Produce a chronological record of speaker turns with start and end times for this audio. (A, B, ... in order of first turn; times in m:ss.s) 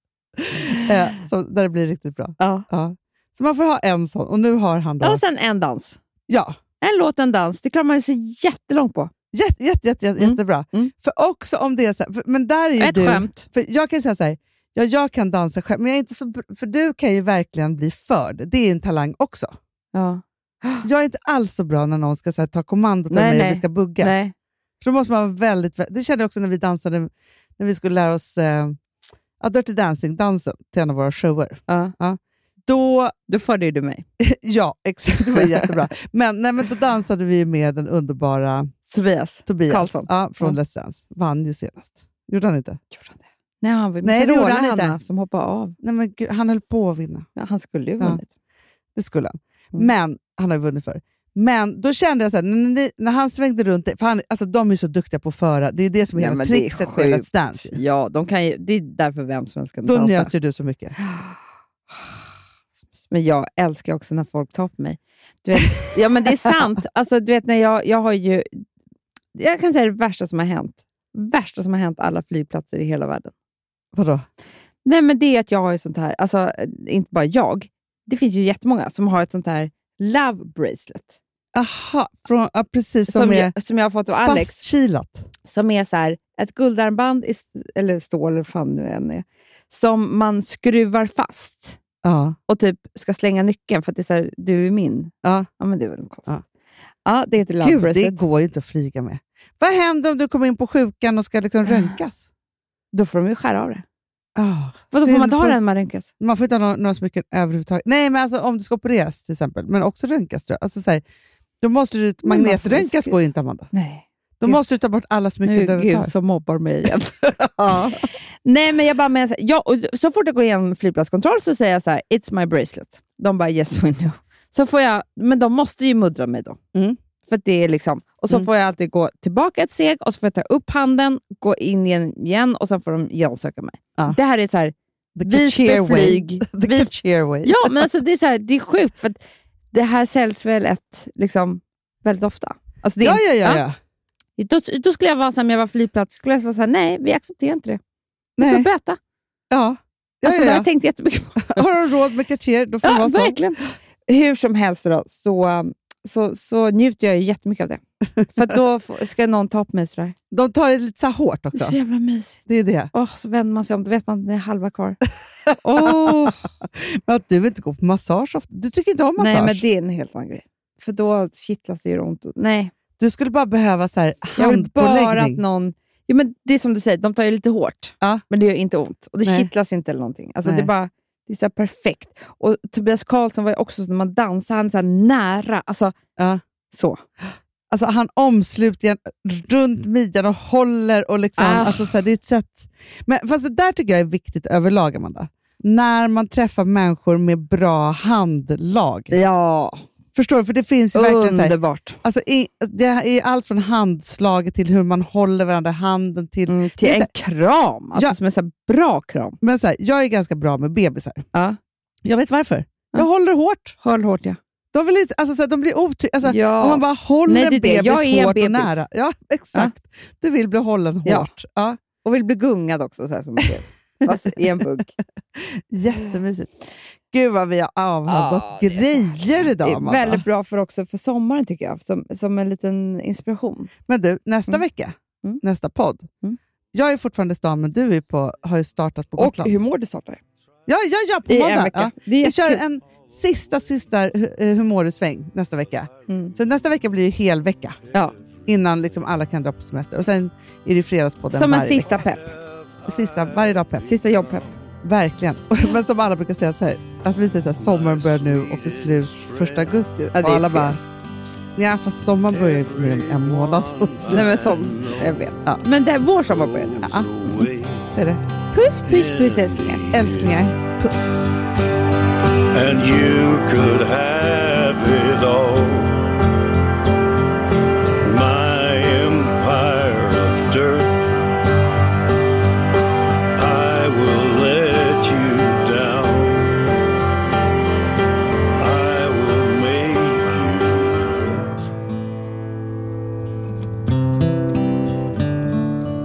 0:00.4-0:05.2 A
0:00.6-0:00.9 B
0:02.4-0:02.7 B
0:05.0-0:06.0 B
0:06.3-0:06.6 A
0:06.8-0:09.1 B
0:09.3-0:19.5 A
0:10.2-0:10.9 B
0:12.8-0:13.5 B
0:19.9-0:20.9 B
0:20.8-0:24.1 A
0:23.1-0:24.3 B
0:24.8-0:28.8 A
0:29.4-0:33.1 A
0:31.7-0:31.9 B
0:33.3-0:34.0 B
0:34.2-0:38.8 A
0:35.3-0:35.7 B
0:38.9-0:40.6 B
0:39.5-0:42.8 A
0:42.9-0:45.8 B
0:44.0-0:45.0 A
0:45.8-0:47.3 A
0:47.4-0:48.3 B
0:49.0-0:57.8 A
0:56.2-1:00.3 B
0:59.8-1:01.0 A
1:01.0-1:01.4 B
1:01.9-1:02.2 B
1:03.1-1:08.6 B
1:09.4-1:13.3 B
1:13.9-1:14.3 A
1:14.8-1:21.2 B
1:21.5-1:23.5 A
1:23.1-1:24.6 B
1:24.2-1:25.3 A
1:25.5-1:31.8 B
1:32.0-1:32.4 A
1:32.5-1:36.3 B
1:37.0-1:38.2 B
1:37.6-1:42.3 A
1:42.9-1:43.8 B
1:44.4-1:45.6 A
1:44.9-1:46.1 B
1:46.2-1:51.0 A
1:51.6-1:53.7 A
1:52.2-1:53.2 B
1:53.7-1:54.8 B
1:54.4-1:56.1 A
1:55.4-1:57.4 B
1:57.3-1:58.0 A
1:58.4-2:06.6 B
2:07.2-2:16.9 B
2:15.2-2:17.8 A
2:17.4-2:19.2 B
2:19.7-2:23.6 B
2:23.0-2:23.8 A
2:24.4-2:27.8 B
2:28.4-2:28.7 A
2:28.4-2:29.0 B
2:29.5-2:30.7 A
2:30.2-2:31.7 B
2:31.4-2:33.4 A
2:32.8-2:40.2 B
2:40.3-2:41.8 A
2:41.6-2:42.4 B
2:42.5-2:42.9 A
2:42.9-2:45.0 B
2:45.5-2:49.6 A
2:45.6-2:46.4 B
2:49.2-2:52.7 B
2:53.0-2:55.4 A
2:54.4-3:06.0 B
3:06.7-3:07.0 B
3:07.7-3:19.2 A
3:11.4-3:12.0 B
3:19.1-3:19.8 B
3:20.2-3:27.1 A
3:20.9-3:22.0 B
3:26.5-3:29.4 B
3:29.4-3:31.3 A
3:32.0-3:33.8 A
3:33.8-3:34.4 B
3:34.7-3:41.8 A
3:36.2-3:38.8 B
3:42.0-3:44.9 B
3:45.4-3:46.5 A
3:47.1-3:50.2 A
3:48.1-3:53.7 B
3:53.9-3:56.1 A
3:56.7-3:59.6 A
3:59.2-4:00.2 B
4:00.7-4:07.8 A
4:01.3-4:02.6 B
4:06.1-4:06.3 B
4:08.5-4:12.0 A
4:11.3-4:12.4 B
4:12.8-4:13.9 A
4:13.8-4:14.5 B
4:14.8-4:20.8 A
4:20.2-4:20.8 B
4:21.6-4:24.3 A
4:23.8-4:25.1 C
4:24.1-4:27.4 B
4:26.2-4:27.9 C
4:26.8-4:27.1 A
4:27.9-4:28.2 A
4:28.5-4:29.9 B
4:28.9-4:30.1 C
4:29.9-4:31.2 A
4:32.5-4:36.1 C
4:38.0-4:41.0 C
4:43.4-4:46.7 C
4:48.6-4:51.5 C